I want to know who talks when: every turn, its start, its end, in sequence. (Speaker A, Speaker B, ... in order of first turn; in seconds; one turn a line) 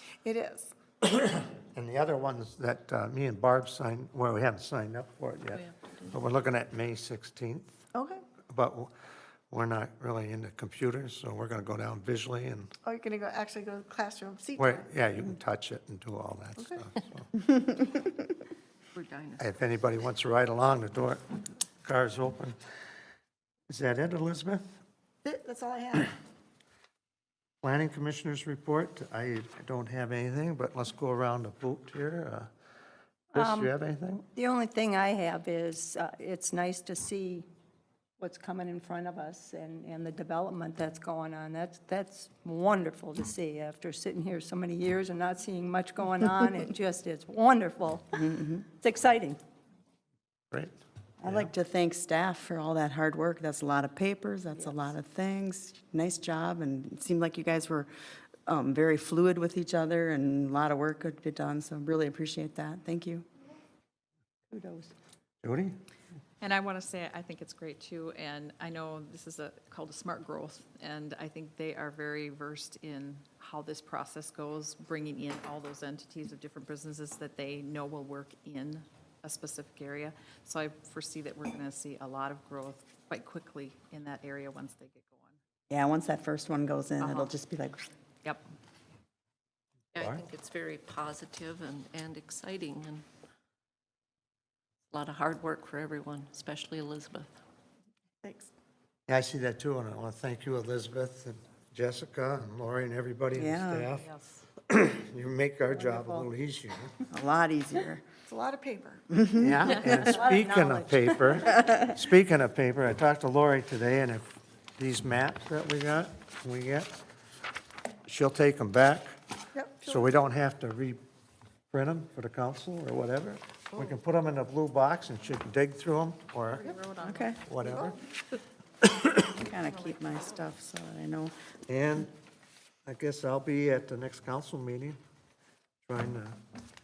Speaker A: 0.2-0.7
Speaker B: 1.7-7.8
Speaker C: 5.5-6.2
Speaker A: 7.9-8.2
Speaker B: 8.5-8.9
Speaker B: 9.5-12.7
Speaker A: 12.8-14.8
Speaker B: 14.6-17.3
Speaker C: 18.9-19.4
Speaker B: 19.4-21.2
Speaker B: 21.8-22.6
Speaker B: 23.7-24.6
Speaker A: 25.2-26.0
Speaker B: 27.6-32.5
Speaker B: 33.3-34.2
Speaker D: 33.4-33.7
Speaker D: 34.3-37.5
Speaker D: 38.2-48.2
Speaker E: 48.2-48.6
Speaker D: 48.8-49.4
Speaker E: 51.2-57.9
Speaker B: 51.2-51.5
Speaker E: 58.5-63.2
Speaker D: 64.5-64.9
Speaker B: 65.4-65.8
Speaker F: 66.4-85.4
Speaker E: 85.7-87.8
Speaker F: 87.0-87.3
Speaker C: 89.9-93.0
Speaker B: 90.0-90.2
Speaker C: 94.9-97.3
Speaker B: 99.1-107.0
Speaker E: 103.3-103.9
Speaker F: 104.0-104.4
Speaker E: 107.1-108.0
Speaker A: 108.3-109.0
Speaker E: 109.1-109.5
Speaker B: 109.4-116.9
Speaker D: 109.9-110.8
Speaker B: 118.0-119.2
Speaker A: 119.6-119.9
Speaker B: 119.8-121.0
Speaker B: 121.7-126.8
Speaker E: 127.0-127.4
Speaker B: 127.4-128.0
Speaker E: 129.2-131.3
Speaker B: 131.7-132.1
Speaker B: 132.8-135.0
Speaker B: 135.8-136.4